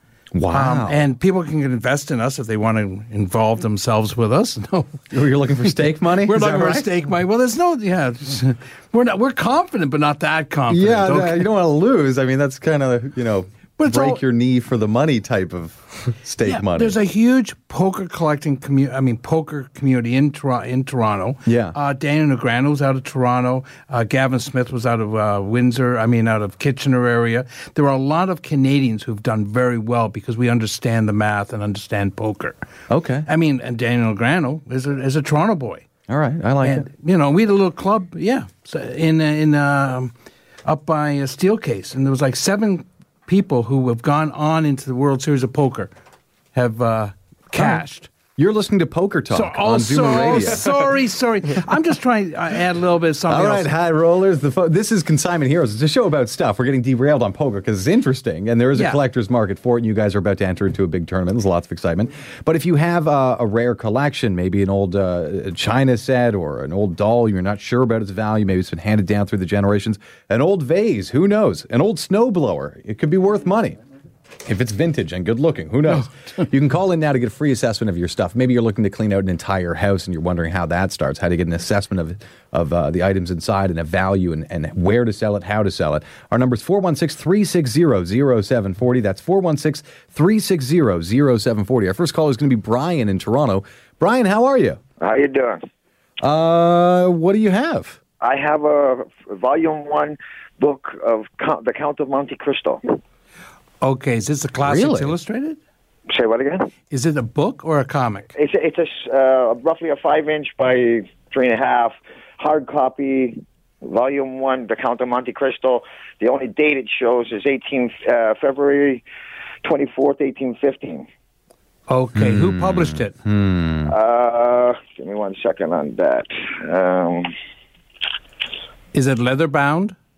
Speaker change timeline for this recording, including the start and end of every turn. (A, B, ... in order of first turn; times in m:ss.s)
0:00.3-0:01.0 A
0:00.5-0:05.0 B
0:05.1-0:06.9 A
0:06.2-0:11.5 B
0:10.7-0:17.0 A
0:13.8-0:14.2 B
0:16.4-0:32.6 B
0:21.4-0:21.8 A
0:32.9-0:33.3 A
0:33.2-0:35.8 B
0:36.1-0:36.9 A
0:36.6-0:40.1 B
0:40.6-0:45.9 B
0:46.5-0:48.1 B
0:48.4-0:50.7 A
0:49.3-0:53.7 B
0:53.3-1:13.8 A
0:58.7-0:59.0 B
1:14.4-1:34.8 A
1:15.9-1:16.4 B
1:35.0-1:35.6 C
1:36.2-1:38.0 A
1:38.2-1:42.8 C
1:43.8-1:45.6 B
1:44.6-1:45.1 A
1:46.1-1:46.7 C
1:46.9-1:48.3 B
1:48.3-1:59.0 C
1:59.6-2:01.1 C
2:01.9-2:03.1 B
2:02.1-2:03.9 A
2:03.9-2:07.3 C
2:08.9-2:09.9 B